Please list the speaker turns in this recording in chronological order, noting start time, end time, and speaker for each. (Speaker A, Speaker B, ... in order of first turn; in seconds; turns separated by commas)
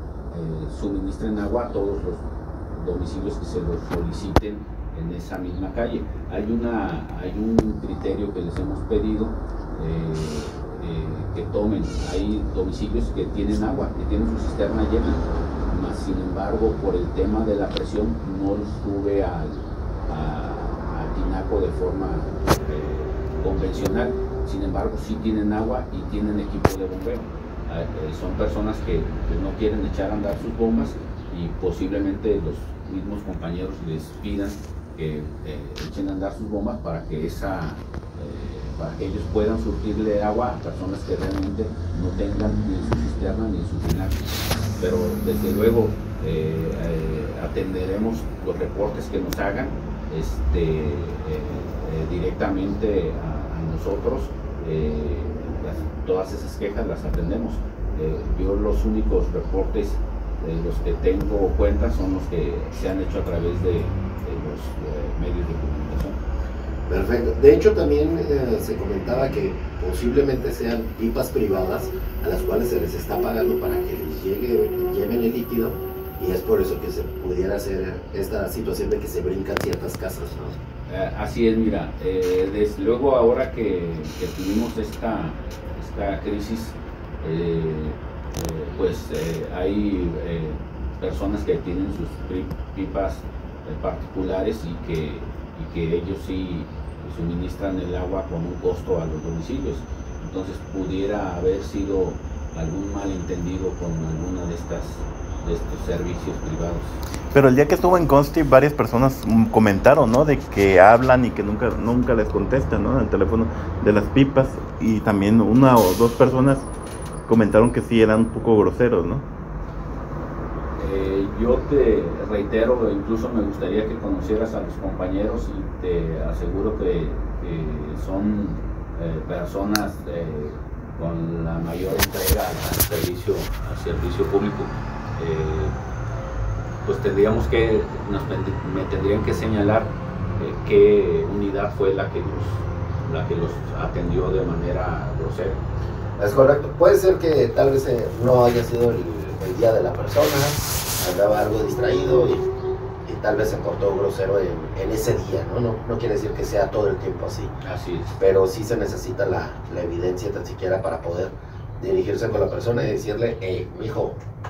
Speaker A: 0.3-44.2, Speaker A: 44.8-66.2, Speaker B: 66.9-80.6, Speaker A: 80.9-107.0, Speaker C: 107.3-116.7, Speaker C: 117.3-119.2, Speaker A: 120.8-135.7, Speaker A: 136.8-145.6, Speaker B: 146.2-152.5, Speaker B: 153.1-157.6, Speaker A: 157.6-158.1, Speaker B: 158.2-164.2